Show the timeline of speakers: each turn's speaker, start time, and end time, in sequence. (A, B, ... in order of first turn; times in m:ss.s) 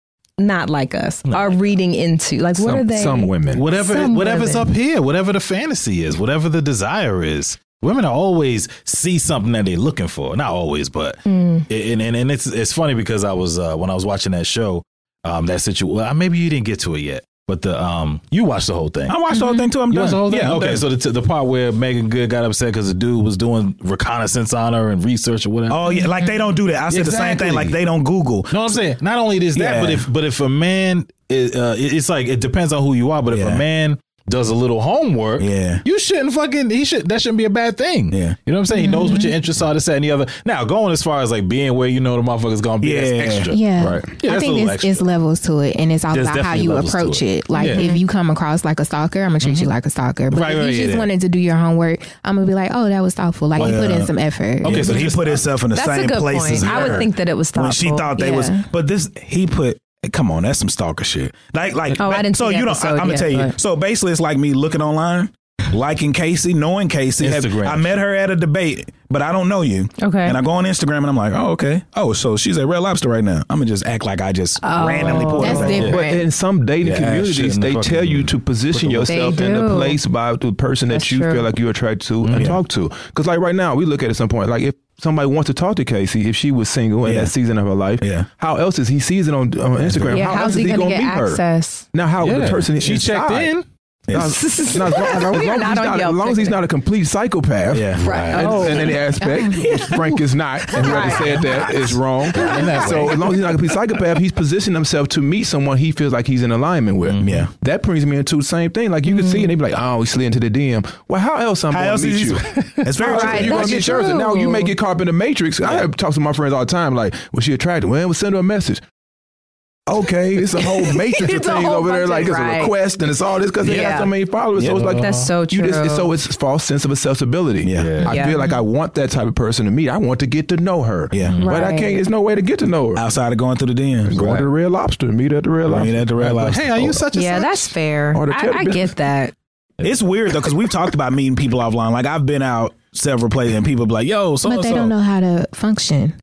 0:00.4-0:04.7 A
0:01.3-0:01.7 B
0:02.6-0:03.6 C
0:03.5-0:19.2 B
0:11.2-0:11.7 A
0:19.1-0:20.8 D
0:19.3-0:19.7 E
0:19.9-0:26.0 B
0:25.7-0:28.8 D
0:26.9-0:27.8 B
0:28.5-0:45.1 B
0:29.6-0:30.1 D
0:33.3-0:33.6 D
0:35.4-0:35.8 D
0:38.1-0:38.4 D
0:38.7-0:39.4 E
0:42.8-0:43.5 D
0:43.5-0:55.1 E
0:43.8-0:44.1 C
0:46.1-0:47.9 B
0:47.6-0:48.0 A
0:49.4-0:49.7 B
0:50.3-0:51.1 B
0:53.6-1:15.9 D
0:54.6-0:55.4 B
0:55.7-0:58.4 A
0:56.6-0:57.1 B
0:58.2-0:58.7 E
1:02.0-1:03.6 A
1:07.2-1:08.0 B
1:10.0-1:10.4 A
1:14.6-1:15.8 A
1:14.9-1:16.3 E
1:15.6-1:16.0 B
1:15.7-1:31.4 C
1:16.8-1:19.3 B
1:19.1-1:20.0 A
1:20.9-1:21.5 A
1:22.2-1:22.6 B
1:27.0-1:27.3 D
1:28.0-1:28.3 D
1:29.8-1:30.4 B
1:30.1-1:31.9 A
1:31.9-1:33.5 C
1:32.2-1:33.6 B
1:34.1-1:34.4 D
1:34.1-1:58.8 C
1:34.2-1:36.6 A
1:37.7-1:38.0 D
1:38.0-1:39.0 B
1:38.0-1:41.7 A
1:40.8-1:43.5 B
1:42.4-1:42.9 A
1:47.0-1:47.5 B
1:47.2-1:47.5 D
1:49.1-1:49.5 A
1:51.7-1:53.8 D
1:52.6-1:52.8 B
1:53.0-1:54.7 A
1:53.5-1:53.8 E
1:59.9-2:13.1 C
2:00.6-2:02.7 A
2:03.6-2:04.1 A
2:04.6-2:04.8 D
2:04.8-2:05.3 B
2:05.0-2:06.1 A
2:07.6-2:08.0 D
2:07.8-2:08.1 B
2:08.1-2:08.4 A
2:11.2-2:11.5 B
2:11.4-2:12.0 A
2:13.0-2:14.3 D
2:14.1-2:17.0 C
2:14.2-2:14.4 B
2:15.7-2:17.0 D
2:16.2-2:17.7 B
2:17.1-2:19.3 A
2:18.1-2:19.0 C
2:19.8-2:24.9 D
2:24.4-2:26.1 E